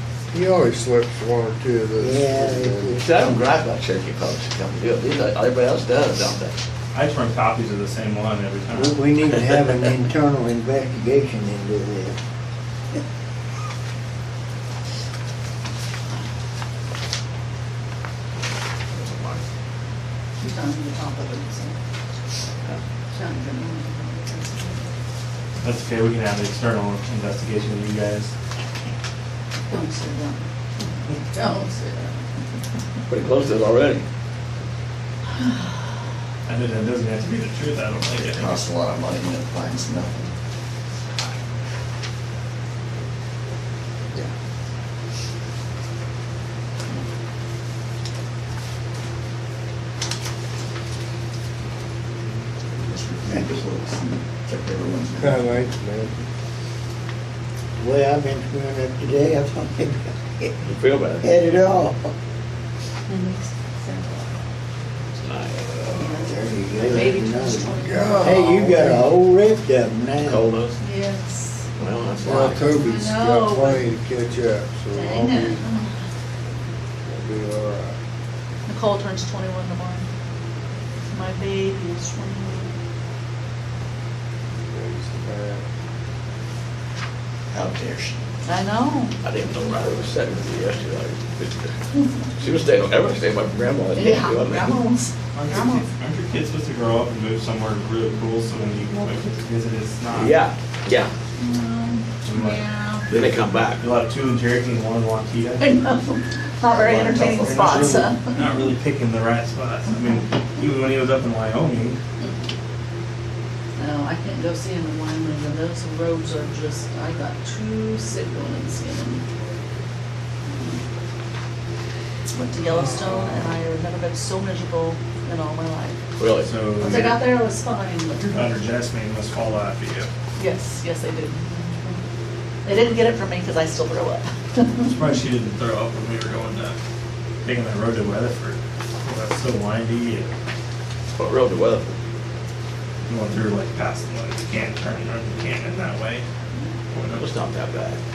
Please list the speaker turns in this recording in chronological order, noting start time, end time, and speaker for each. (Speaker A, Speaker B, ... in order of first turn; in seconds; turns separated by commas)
Speaker A: 0.3-3.0, Speaker B: 2.0-3.4, Speaker C: 3.0-6.6, Speaker D: 6.9-9.0, Speaker B: 8.7-12.2, Speaker C: 18.9-19.4, Speaker E: 20.4-21.8, Speaker E: 23.1-24.8, Speaker D: 25.6-28.3, Speaker E: 29.7-30.4, Speaker E: 31.1-32.2, Speaker C: 33.1-34.0, Speaker D: 36.5-38.5, Speaker F: 38.1-40.3, Speaker F: 52.7-55.6, Speaker A: 55.2-56.2, Speaker B: 57.8-60.7, Speaker C: 60.6-61.3, Speaker B: 61.2-62.1, Speaker C: 65.2-66.2, Speaker E: 65.9-68.5, Speaker B: 66.1-70.5, Speaker A: 67.8-69.1, Speaker C: 70.2-70.8, Speaker E: 70.8-71.7, Speaker C: 71.8-72.7, Speaker A: 72.2-75.7, Speaker E: 72.3-73.9, Speaker E: 74.9-75.9, Speaker A: 77.0-78.0, Speaker E: 78.7-80.0, Speaker E: 81.1-82.7, Speaker A: 84.7-85.6, Speaker F: 87.5-88.2, Speaker E: 88.4-89.2, Speaker C: 89.2-94.8, Speaker E: 93.9-95.8, Speaker D: 95.3-100.4, Speaker C: 100.1-101.1, Speaker E: 101.3-103.1, Speaker D: 102.2-105.6, Speaker C: 103.1-103.8, Speaker E: 105.6-108.4, Speaker F: 106.7-108.1, Speaker D: 107.2-112.0, Speaker E: 113.8-119.2, Speaker E: 120.5-120.8, Speaker E: 122.3-126.0, Speaker D: 122.8-123.5, Speaker C: 126.2-127.2, Speaker D: 126.4-127.2, Speaker E: 126.8-128.5, Speaker D: 128.2-130.1, Speaker E: 130.4-131.9, Speaker E: 132.6-134.9, Speaker D: 134.8-136.8, Speaker D: 137.4-140.3, Speaker C: 141.1-142.0, Speaker D: 143.0-146.2, Speaker D: 146.9-147.3, Speaker C: 147.1-148.0